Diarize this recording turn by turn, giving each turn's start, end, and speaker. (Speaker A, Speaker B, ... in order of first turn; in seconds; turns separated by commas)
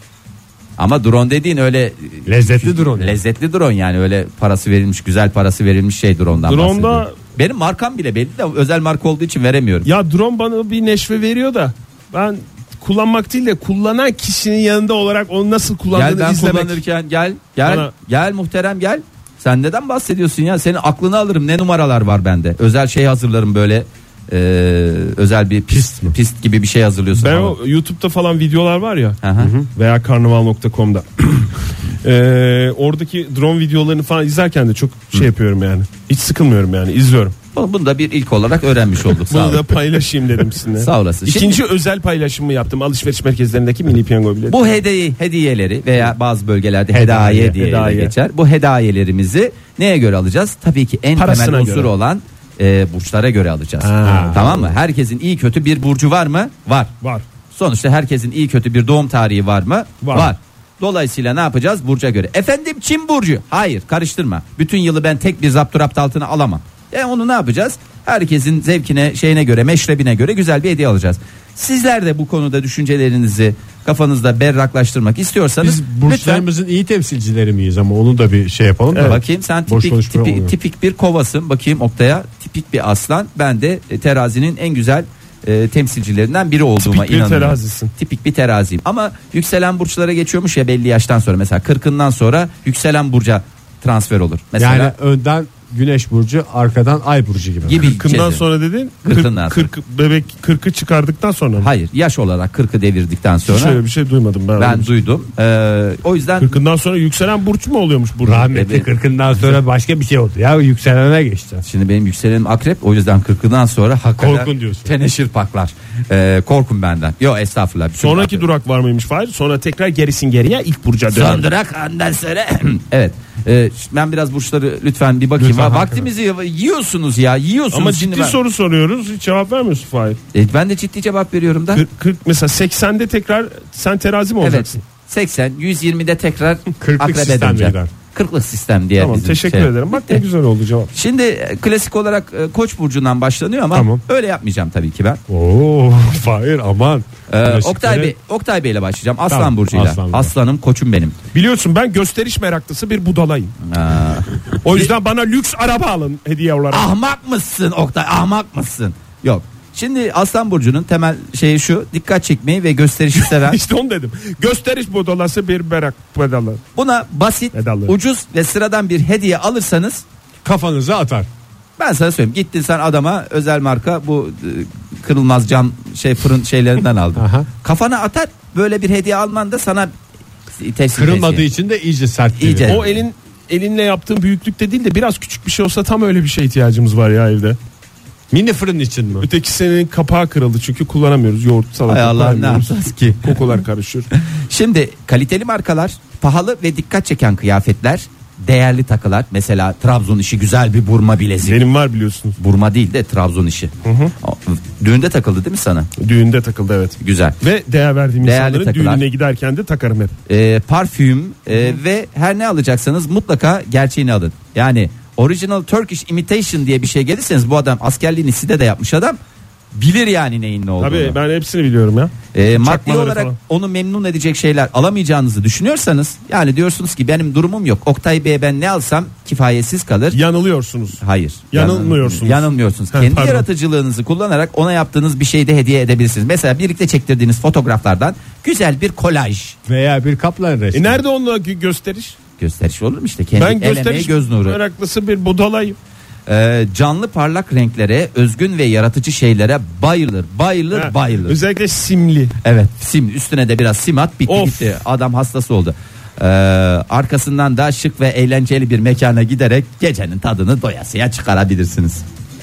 Speaker A: 0.8-9.9, Speaker B: 2.2-3.2, Speaker C: 6.3-7.2, Speaker C: 9.8-16.8, Speaker A: 15.9-27.6, Speaker C: 17.6-17.9, Speaker B: 25.7-26.1, Speaker C: 27.2-37.3, Speaker A: 29.2-29.5, Speaker B: 29.4-29.7, Speaker A: 37.5-39.7, Speaker C: 39.1-44.8, Speaker A: 40.8-41.6, Speaker A: 44.5-56.9, Speaker C: 46.9-48.1, Speaker B: 47.2-47.5, Speaker C: 51.1-51.9, Speaker C: 53.8-54.6, Speaker B: 54.0-54.7, Speaker A: 57.5-76.5, Speaker C: 60.0-60.3, Speaker B: 75.6-80.5, Speaker C: 78.9-79.2, Speaker A: 79.0-94.9, Speaker C: 86.8-87.9, Speaker B: 94.6-97.8, Speaker A: 97.6-98.4, Speaker C: 97.8-101.7, Speaker A: 99.0-99.7, Speaker A: 101.6-103.8, Speaker C: 103.5-104.9, Speaker A: 104.6-106.5, Speaker C: 106.4-108.5, Speaker B: 108.2-111.6, Speaker A: 108.5-108.8, Speaker A: 111.6-118.4, Speaker B: 114.2-114.9, Speaker C: 118.0-121.4, Speaker A: 121.1-128.4, Speaker B: 125.4-126.1, Speaker C: 127.7-130.2, Speaker A: 130.3-131.8, Speaker C: 131.7-134.8, Speaker A: 134.4-140.2, Speaker B: 136.8-137.9, Speaker C: 139.0-140.9, Speaker A: 140.9-145.2, Speaker B: 143.7-144.0, Speaker B: 145.3-148.1, Speaker A: 147.3-151.2, Speaker B: 149.3-150.3, Speaker C: 151.3-153.5, Speaker A: 153.6-154.9, Speaker C: 154.6-156.9, Speaker A: 156.7-163.6, Speaker C: 163.1-166.6, Speaker A: 166.8-170.0, Speaker C: 167.5-167.9, Speaker B: 170.4-171.3, Speaker A: 171.8-179.9, Speaker B: 177.2-177.5, Speaker A: 180.6-181.4, Speaker B: 180.9-182.9, Speaker A: 182.4-182.9, Speaker C: 182.7-187.6, Speaker B: 188.3-189.3, Speaker C: 189.2-194.1, Speaker A: 191.9-193.4, Speaker A: 194.2-201.6, Speaker C: 201.4-202.3, Speaker A: 202.4-205.9, Speaker C: 203.8-204.1, Speaker C: 206.0-210.1, Speaker A: 207.0-207.4, Speaker A: 208.2-209.0, Speaker A: 210.3-219.2, Speaker A: 219.7-221.2, Speaker C: 220.8-223.3, Speaker A: 222.3-230.2, Speaker C: 230.1-233.4, Speaker A: 231.0-239.6, Speaker B: 239.7-241.0, Speaker C: 240.7-242.2, Speaker A: 242.4-244.6, Speaker C: 243.3-245.8, Speaker A: 246.3-251.4, Speaker C: 250.7-252.3, Speaker A: 252.4-262.0, Speaker C: 254.3-254.8